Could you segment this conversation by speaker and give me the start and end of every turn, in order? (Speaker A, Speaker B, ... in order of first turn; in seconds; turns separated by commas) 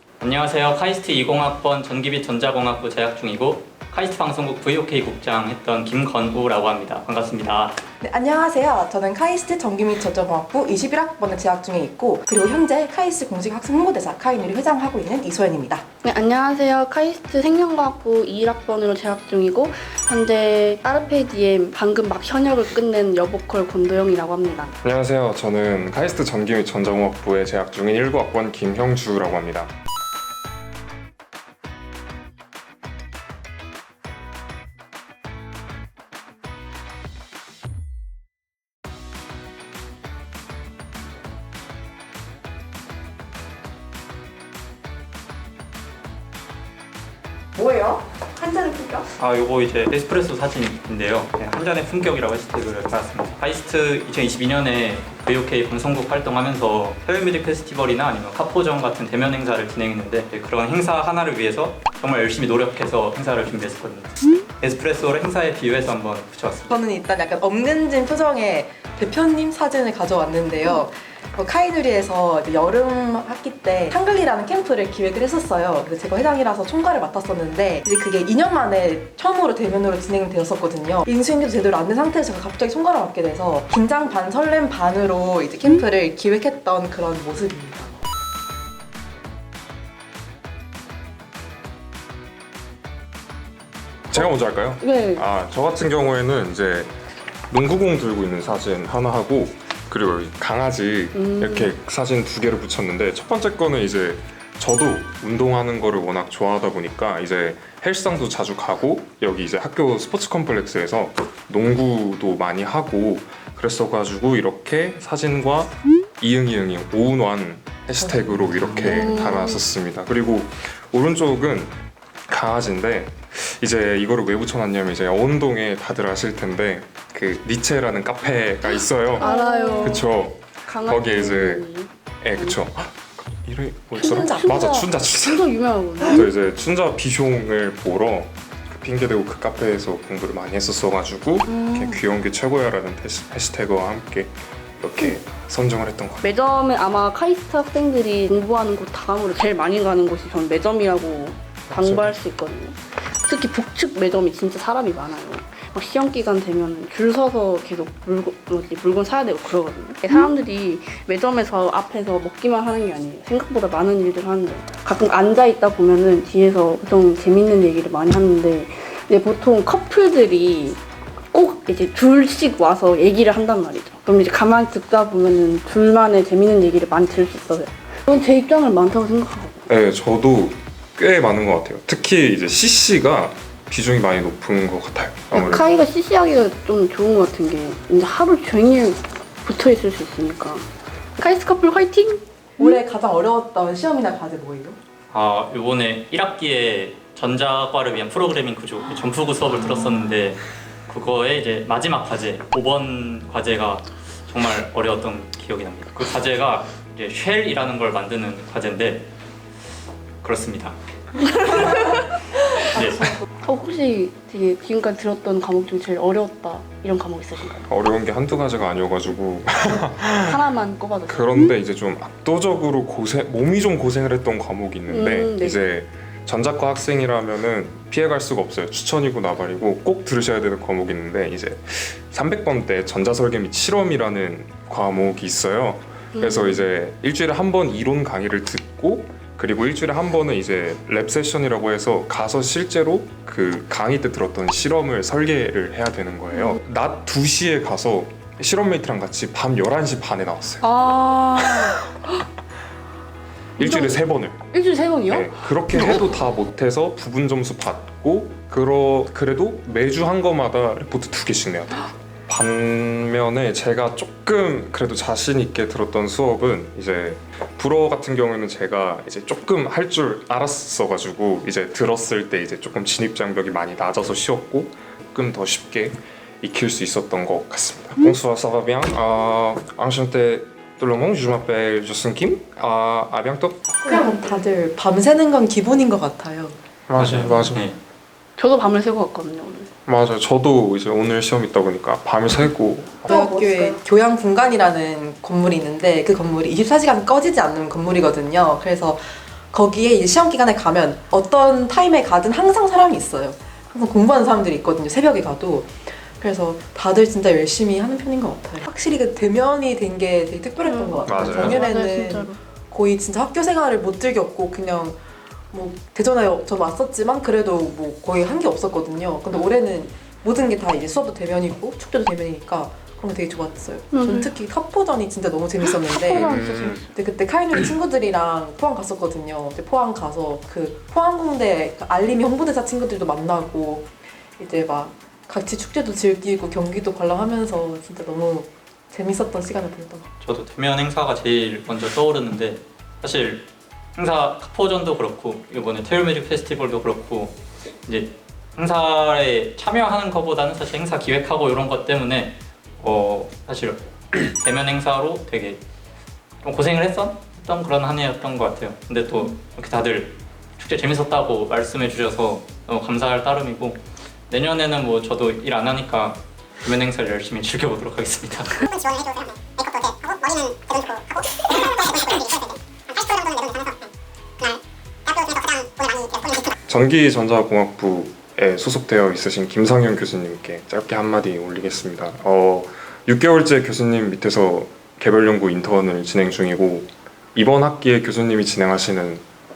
Speaker A: 0.2-7.8, Speaker B: 8.0-15.8, Speaker C: 16.0-24.8, Speaker D: 24.8-29.7, Speaker A: 49.2-66.8, Speaker B: 66.7-87.9, Speaker D: 94.1-96.9, Speaker C: 94.1-95.2, Speaker D: 97.5-121.7, Speaker C: 101.1-101.7, Speaker B: 118.0-119.4, Speaker C: 118.8-119.6, Speaker D: 122.3-131.7, Speaker C: 129.1-132.6, Speaker B: 129.2-129.9, Speaker D: 132.2-135.4, Speaker C: 133.9-136.3, Speaker D: 136.0-146.3, Speaker C: 141.4-142.0, Speaker C: 146.2-170.8, Speaker D: 151.7-152.1, Speaker C: 171.3-179.7, Speaker D: 179.7-185.7, Speaker C: 185.3-192.8, Speaker B: 192.6-194.8, Speaker A: 195.1-209.1, Speaker A: 210.2-212.0, Speaker A: 212.7-213.1, Speaker C: 213.4-217.7, Speaker D: 217.6-220.4, Speaker C: 220.1-221.5, Speaker D: 221.1-250.7, Speaker C: 224.9-225.7, Speaker C: 236.2-236.6, Speaker C: 246.3-246.6, Speaker C: 250.6-251.9, Speaker D: 251.3-251.8, Speaker D: 253.6-254.4, Speaker C: 253.6-256.1, Speaker D: 255.1-283.7, Speaker B: 283.8-286.6, Speaker C: 283.9-284.3, Speaker D: 286.9-287.6, Speaker A: 287.0-287.8, Speaker C: 288.4-289.7, Speaker D: 289.9-293.1, Speaker B: 293.1-315.0, Speaker C: 293.1-293.8, Speaker C: 310.6-312.4, Speaker D: 311.1-311.6, Speaker B: 315.5-340.1, Speaker C: 323.9-324.3, Speaker C: 325.9-326.9, Speaker D: 326.0-326.8, Speaker A: 340.2-355.6, Speaker A: 356.4-363.8, Speaker A: 364.3-368.6, Speaker E: 368.7-373.9, Speaker E: 374.4-376.5, Speaker D: 376.6-389.2